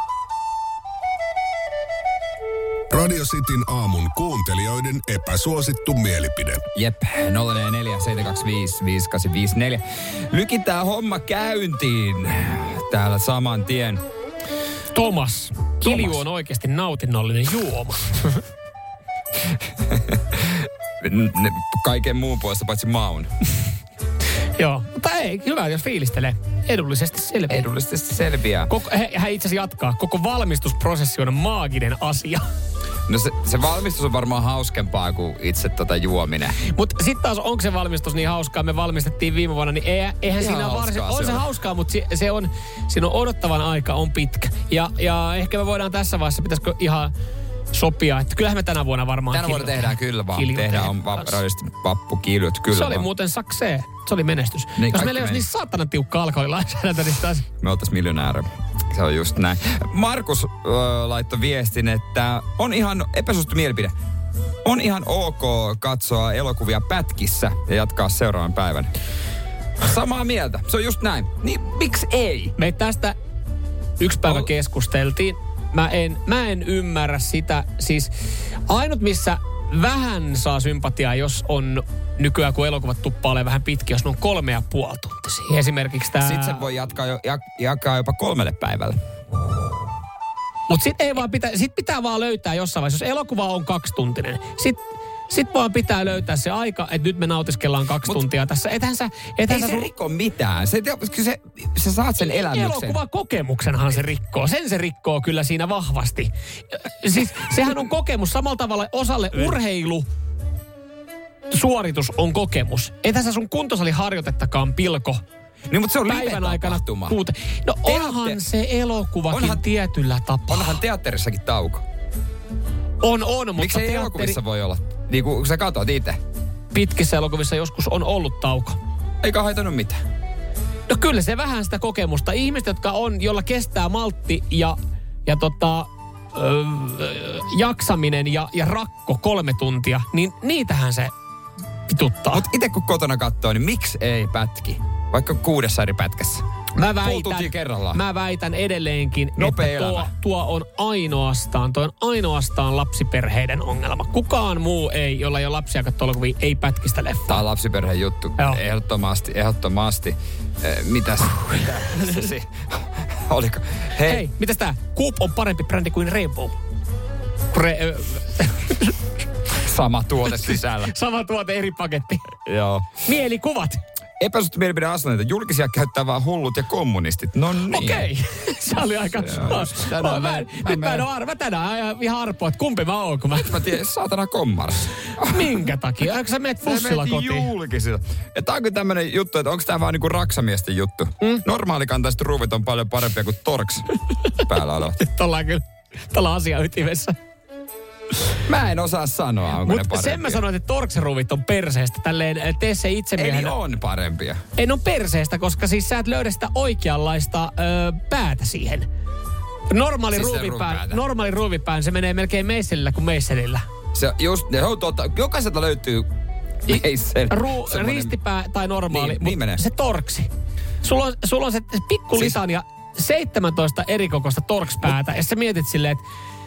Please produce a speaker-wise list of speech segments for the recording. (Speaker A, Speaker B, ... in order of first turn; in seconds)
Speaker A: 2.9-6.6
Speaker B: 6.7-14.0, 15.8-16.2, 19.8-23.3, 27.5-28.7, 33.1-36.6, 40.3-41.5, 49.3-53.0, 54.8-55.5, 57.6-63.9, 64.6-68.9, 69.8-72.5, 86.2-89.0, 99.5-103.0, 115.7-117.2, 117.8-118.4, 119.3-119.6, 120.5-121.8, 123.5-126.2, 129.2-130.0, 142.3-146.4, 147.0-148.0, 149.4-150.1, 157.3-164.3, 169.6-170.9, 172.4-173.0, 174.2-178.1, 179.0-181.1, 183.4-185.7, 186.6-195.0, 198.4-200.4, 203.2-204.4, 210.1-211.0, 213.9-216.1, 216.6-218.1, 218.9-219.6
Speaker C: 14.9-18.4, 24.6-27.6, 28.7-32.4, 36.6-47.1, 47.7-51.4, 52.7-57.5, 72.6-73.2, 74.0-78.1, 78.7-86.7, 90.7-99.9, 102.2-110.0, 111.5-115.2, 116.0-120.8, 123.0-124.4, 126.7-128.8, 130.9-141.1, 141.9-142.4, 146.8-157.4, 161.8-162.3, 164.0-166.5, 167.5-168.9, 170.2-172.3, 173.0-173.8, 177.7-183.6, 185.2-187.5, 195.0-197.1, 199.6-203.6, 204.6-208.9, 209.7-213.6, 217.3-220.3, 220.8-226.0